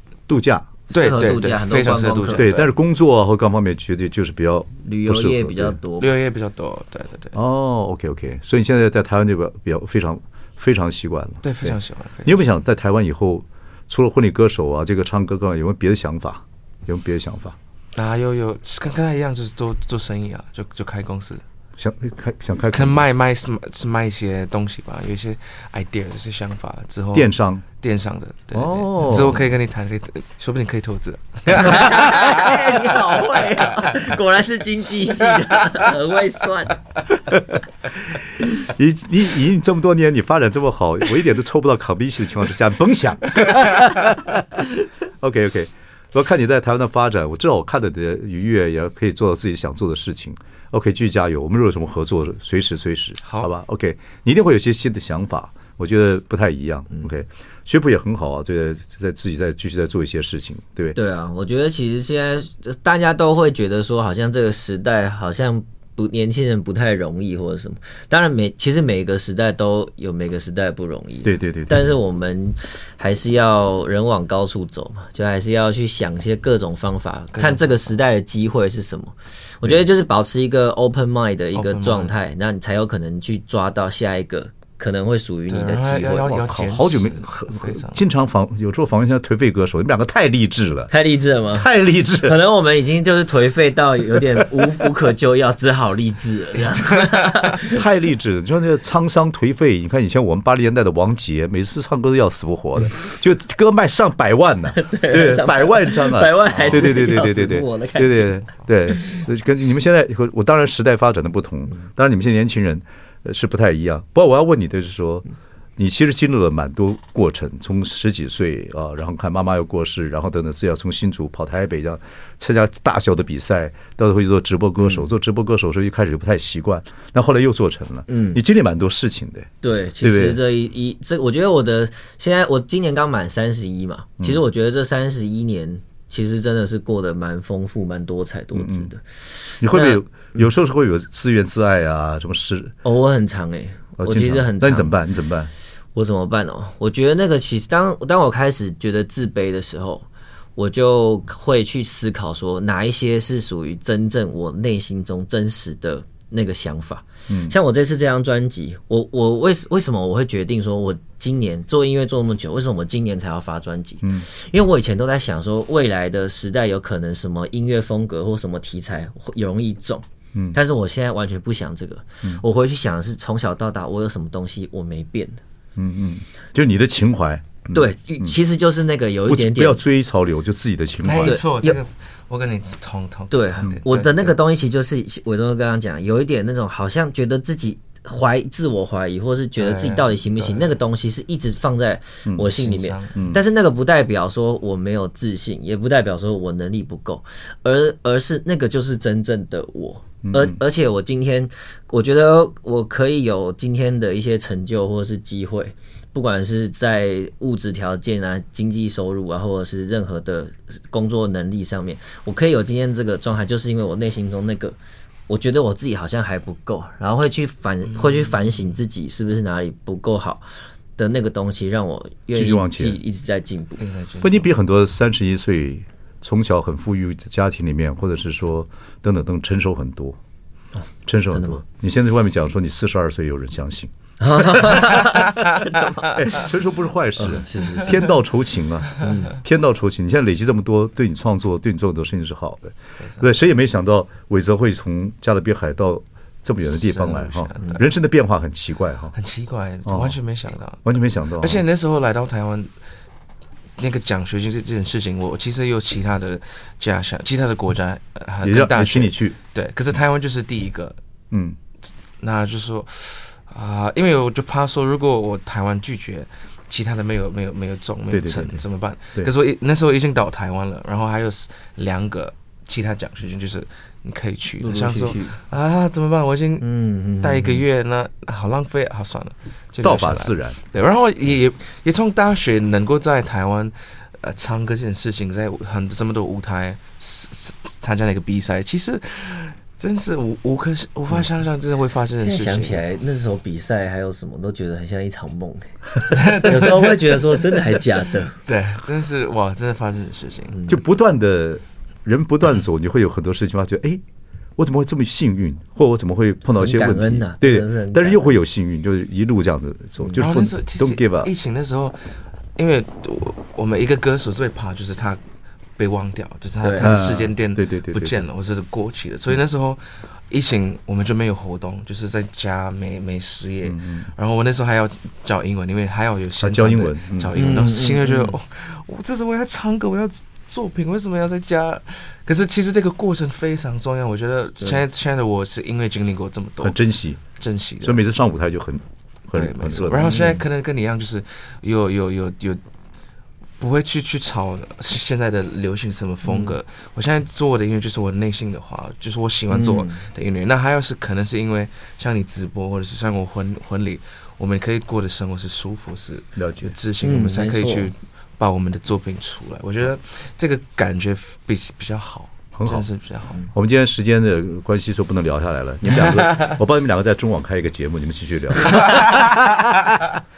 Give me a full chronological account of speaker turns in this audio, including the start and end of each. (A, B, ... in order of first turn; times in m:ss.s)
0:00.3-0:00.7 A
0:00.9-0:02.5 B
0:00.9-0:02.7 C
0:02.4-0:05.8 A
0:04.8-0:06.1 B
0:06.0-0:07.3 C
0:07.3-0:17.6 A
0:11.4-0:12.5 C
0:17.9-0:21.4 C
0:21.8-0:23.0 A
0:22.7-0:34.1 C
0:27.1-0:27.6 A
0:28.5-0:29.4 A
0:31.5-0:36.8 B
0:37.3-0:44.6 A
0:43.4-0:43.7 C
0:45.2-1:01.0 A
0:53.2-0:53.5 C
1:00.9-1:26.3 B
1:11.2-1:12.0 A
1:17.3-1:17.6 C
1:21.5-1:22.1 C
1:25.5-1:28.0 C
1:26.2-1:30.9 A
1:30.9-1:31.7 B
1:31.5-1:32.4 A
1:32.2-1:37.8 B
1:36.6-1:37.6 C
1:37.6-1:55.2 A
1:44.7-1:48.4 B
1:46.4-1:47.0 C
1:49.0-1:49.2 B
1:55.8-2:09.5 A
2:04.8-2:05.0 B
2:08.1-2:08.4 B
2:09.6-2:19.0 B
2:10.0-2:10.4 A
2:18.5-2:18.9 A
2:19.6-2:22.7 A
2:19.6-2:20.4 B
2:22.8-2:24.9 B
2:24.0-2:25.5 A
2:25.9-2:55.4 B
2:37.3-2:37.5 A
2:55.8-2:58.4 A
2:57.7-2:59.8 B
2:59.3-3:01.4 A
3:01.0-3:04.4 C
3:01.2-3:01.8 B
3:03.3-3:34.8 B
3:09.6-3:10.7 C
3:12.4-3:13.2 C
3:13.2-3:13.4 A
3:20.2-3:20.6 A
3:35.3-3:40.4 B
3:37.9-3:38.6 C
3:41.0-3:43.8 B
3:42.3-3:43.0 A
3:43.8-3:44.4 C
3:44.2-3:50.2 A
3:51.0-3:53.9 A
3:51.3-3:51.6 B
3:54.2-3:56.2 B
3:54.4-3:54.9 A
3:56.0-4:09.1 A
3:57.2-3:58.0 B
3:59.0-3:59.3 B
4:06.6-4:07.8 C
4:09.1-4:12.7 C
4:09.8-4:10.2 A
4:10.8-4:11.6 A
4:13.8-4:21.0 C
4:18.4-4:19.4 A
4:21.3-4:21.6 A
4:22.2-4:52.8 C
4:28.1-4:28.6 A
4:34.6-4:35.4 B
4:36.6-4:37.6 B
4:39.8-4:40.6 A
4:52.2-4:58.4 B
4:56.1-4:57.6 C
4:58.4-5:00.6 C
5:00.7-5:04.0 A
5:04.6-5:11.3 A
5:06.6-5:08.4 B
5:10.2-5:12.0 C
5:12.6-5:15.2 C
5:15.8-5:36.8 C
5:16.6-5:17.1 B
5:16.8-5:18.2 A
5:23.6-5:24.1 A
5:26.4-5:27.5 A
5:27.3-5:28.3 B
5:36.6-5:37.2 A
5:37.3-5:38.0 C
5:37.8-5:40.2 A
5:39.3-5:42.6 C
5:40.0-5:40.4 B
5:43.6-6:03.4 C
5:46.3-5:46.5 B
5:49.5-5:50.0 B
5:56.4-5:56.7 A
5:57.0-5:57.9 B
6:02.6-6:02.8 A
6:03.5-6:09.2 A
6:05.9-6:06.6 C
6:08.7-6:10.0 C